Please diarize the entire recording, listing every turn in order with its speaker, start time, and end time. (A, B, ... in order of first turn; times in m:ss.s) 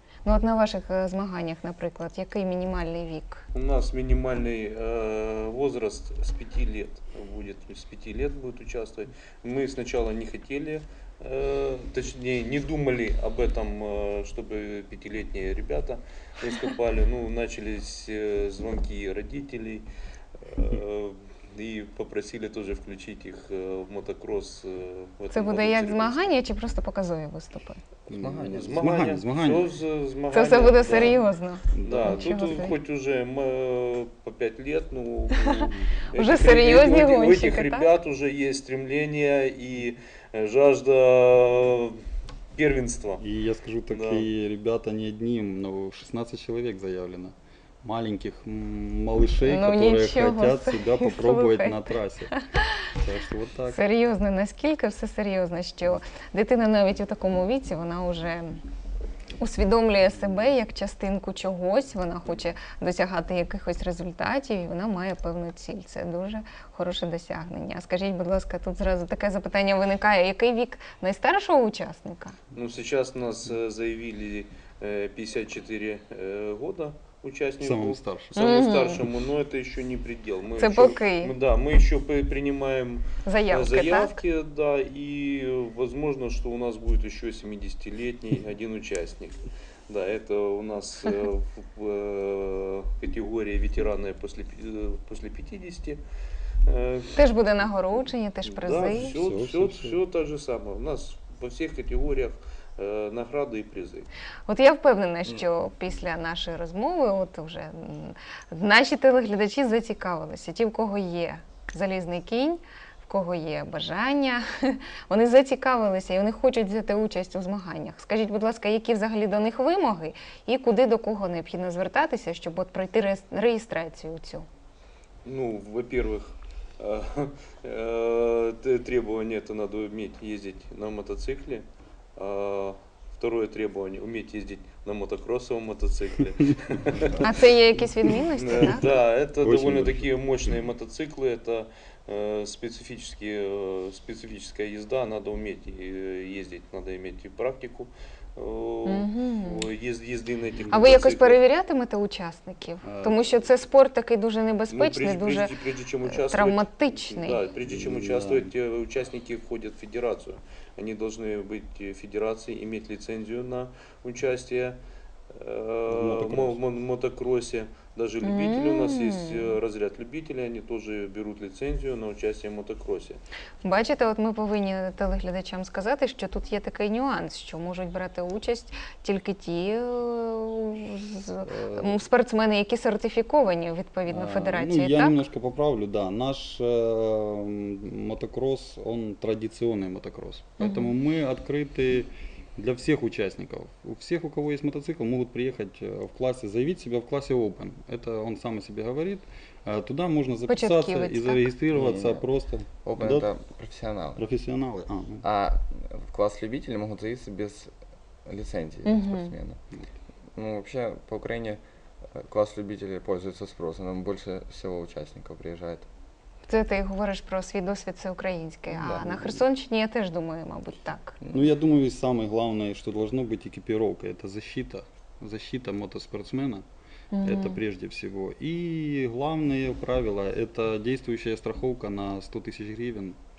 0:00.2-0:03.4 A
0:03.5-0:19.8 B
0:20.4-0:26.3 B
0:25.3-0:27.8 A
0:28.1-0:29.7 C
0:28.1-0:28.7 D
0:28.5-0:31.3 B
0:30.3-0:32.8 A
0:31.7-0:32.7 C
0:31.8-0:42.0 B
0:35.4-0:37.9 A
0:42.5-0:43.2 B
0:43.2-0:52.3 C
0:43.9-0:44.3 B
0:49.4-0:52.8 A
0:52.9-0:53.8 C
0:53.7-0:58.6 A
0:59.4-1:12.4 A
1:12.5-1:36.0 B
1:17.6-1:18.4 C
1:18.4-1:19.0 A
1:20.6-1:21.3 A
1:23.2-1:24.2 A
1:36.6-1:37.3 B
1:37.2-1:39.1 A
1:38.4-1:44.1 B
1:39.0-1:40.0 C
1:44.5-2:04.4 A
2:05.2-2:17.5 B
2:17.2-2:18.9 A
2:18.0-2:31.4 B
2:18.1-2:18.8 C
2:19.4-2:20.1 C
2:28.8-2:29.6 A
2:30.7-2:30.9 C
2:30.7-2:35.5 A
2:32.8-2:33.2 C
2:34.7-2:44.8 B
2:36.0-2:37.4 A
2:37.6-2:38.5 C
2:45.3-2:53.2 B
2:45.9-2:46.6 C
2:48.2-2:49.5 A
2:53.6-3:05.2 A
3:01.4-3:02.0 C
3:04.1-3:23.3 C
3:10.6-3:10.9 A
3:20.5-3:21.5 A
3:21.7-3:22.2 D
3:22.8-3:24.2 D
3:24.2-3:25.2 C
3:25.2-3:27.7 D
3:28.2-3:29.6 D
3:28.8-3:29.3 A
3:30.4-3:31.6 D
3:32.1-3:35.9 D
3:36.5-3:41.2 A
3:38.7-3:39.4 D
3:41.2-3:41.5 D
3:41.3-3:46.6 C
3:47.1-3:47.6 A
3:47.2-3:53.2 C